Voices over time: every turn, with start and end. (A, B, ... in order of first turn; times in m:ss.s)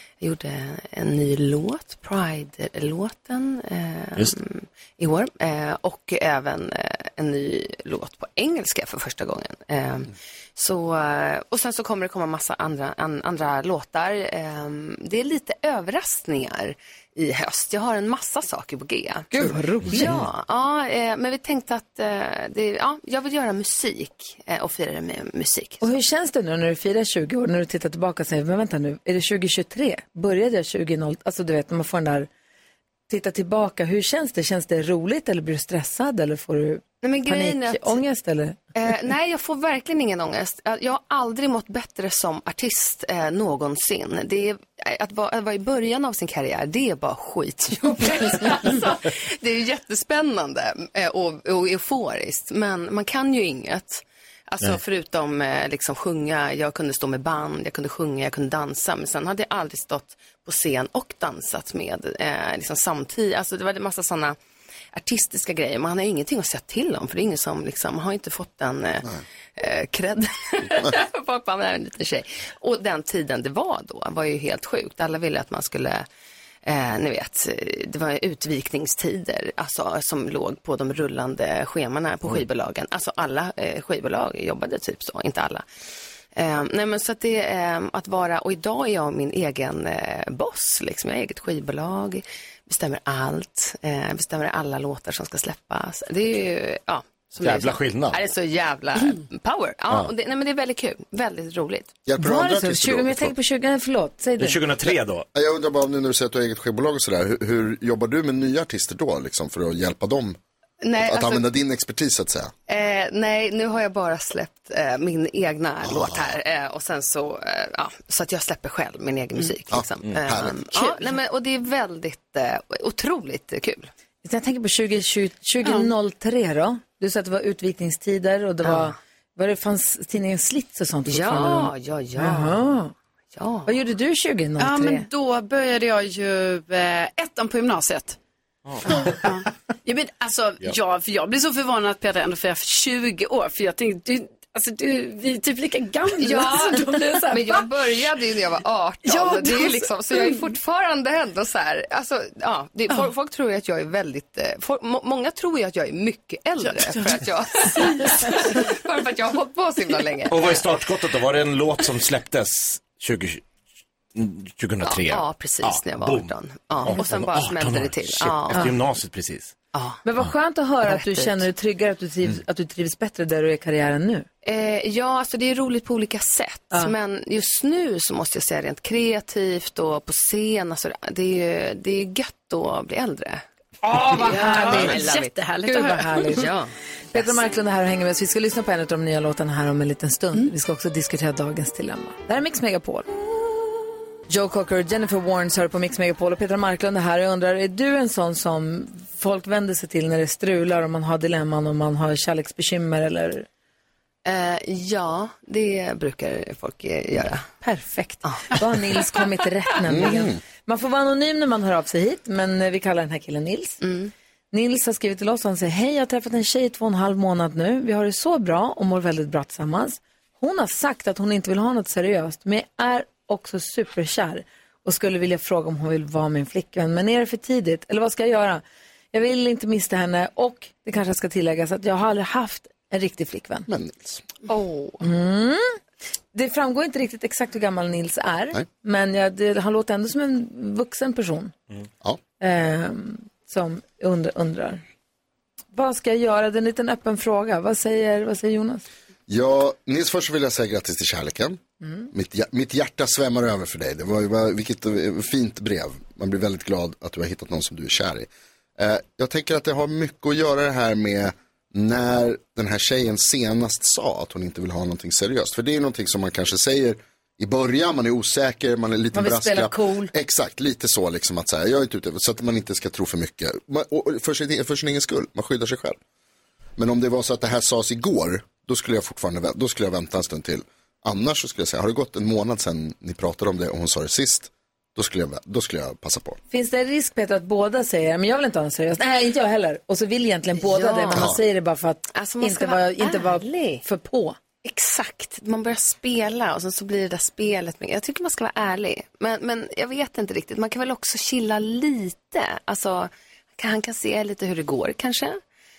0:00.2-0:25.8 A
0:19.3-0:20.1 B
0:25.8-0:32.3 B
0:33.1-0:38.6 B
0:37.0-0:38.0 A
0:38.7-1:04.4 A
1:04.9-1:16.0 A
1:16.6-1:25.6 A
1:26.4-1:42.0 A
1:37.4-1:38.2 C
1:42.0-1:43.3 D
1:42.2-1:44.6 B
1:44.4-1:45.2 C
1:44.9-1:50.4 D
1:50.8-1:51.5 A
1:51.0-1:52.5 D
1:52.7-2:03.9 A
1:55.8-1:56.4 D
1:59.7-2:00.6 D
2:00.8-2:01.1 E
2:04.2-2:12.9 B
2:08.6-2:08.9 A
2:11.1-2:12.6 A
2:13.3-2:13.7 A
2:13.7-2:15.0 B
2:14.6-2:18.2 E
2:18.6-2:19.2 C
2:18.9-2:27.7 E
2:26.2-2:40.6 A
2:29.0-2:30.5 E
2:36.6-2:38.6 E
2:40.3-2:43.4 C
2:44.1-2:46.3 C
2:44.8-2:48.8 A
2:46.8-2:49.5 C
2:49.7-2:50.0 A
2:50.0-2:54.2 B
2:50.8-2:51.5 A
2:54.4-3:03.4 A
3:03.9-3:06.5 E
3:03.9-3:05.1 B
3:04.0-3:05.4 A
3:05.6-3:06.5 B
3:06.3-3:07.4 A
3:07.1-3:13.1 B
3:14.3-3:23.4 B
3:24.2-3:27.5 A
3:27.6-3:33.8 B
3:28.2-3:28.6 A
3:29.9-3:30.4 D
3:33.8-3:34.1 A
3:34.5-3:48.6 B
3:49.1-3:53.7 B
3:53.7-3:54.2 D
3:54.5-3:55.0 A
3:55.0-3:55.8 B
3:56.3-4:01.5 B
4:02.4-4:04.8 B
4:05.7-4:08.8 B
4:09.3-4:11.6 D
4:11.8-4:12.1 B
4:12.1-4:36.0 D
4:29.1-4:30.1 B
4:36.8-4:46.4 D
4:46.5-4:54.4 B
4:50.5-4:51.3 A
4:51.1-4:51.4 D
4:52.1-4:53.8 A
4:54.6-5:05.4 A